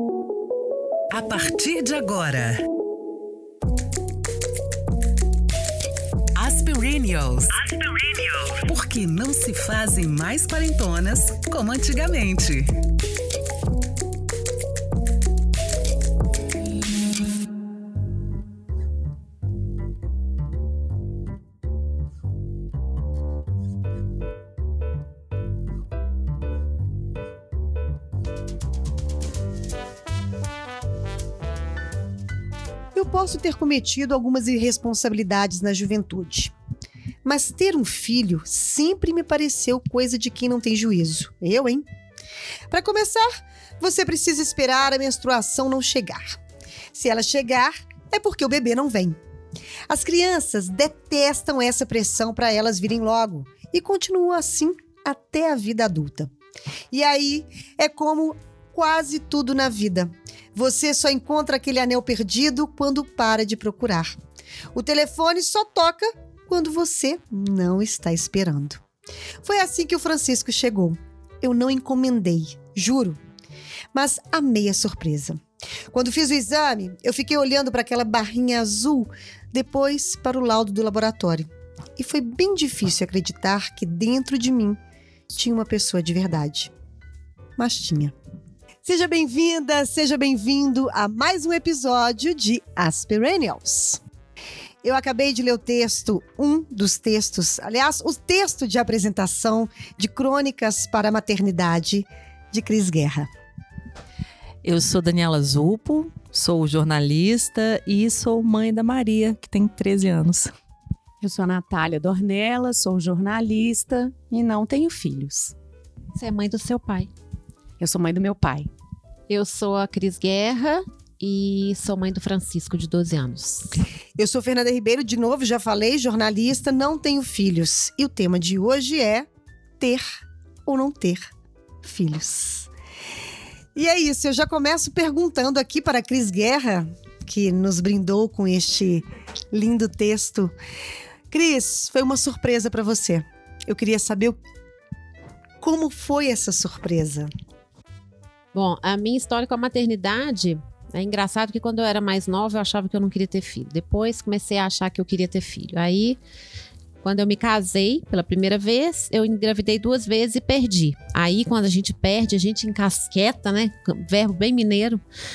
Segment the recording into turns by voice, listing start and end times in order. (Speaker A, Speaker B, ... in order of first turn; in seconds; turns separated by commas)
Speaker A: 1.1-2.6, Speaker A: 6.3-12.7, Speaker B: 32.9-36.5, Speaker B: 37.2-41.9, Speaker B: 42.7-46.4, Speaker B: 46.9-49.2, Speaker B: 49.9-56.3, Speaker B: 56.9-64.1, Speaker B: 64.7-68.8, Speaker B: 69.4-73.2, Speaker B: 73.9-84.8, Speaker B: 85.3-86.7, Speaker B: 87.6-88.1, Speaker B: 88.8-94.0, Speaker B: 94.8-103.3, Speaker C: 104.6-110.5, Speaker D: 111.2-115.5, Speaker E: 116.2-117.1, Speaker D: 117.8-118.7, Speaker E: 119.3-123.8, Speaker B: 124.2-129.3, Speaker B: 129.8-130.0, Speaker B: 130.7-131.3, Speaker B: 131.8-132.7, Speaker B: 133.7-140.5, Speaker B: 141.3-144.4, Speaker B: 145.6-147.3, Speaker E: 148.5-156.2, Speaker E: 157.0-165.0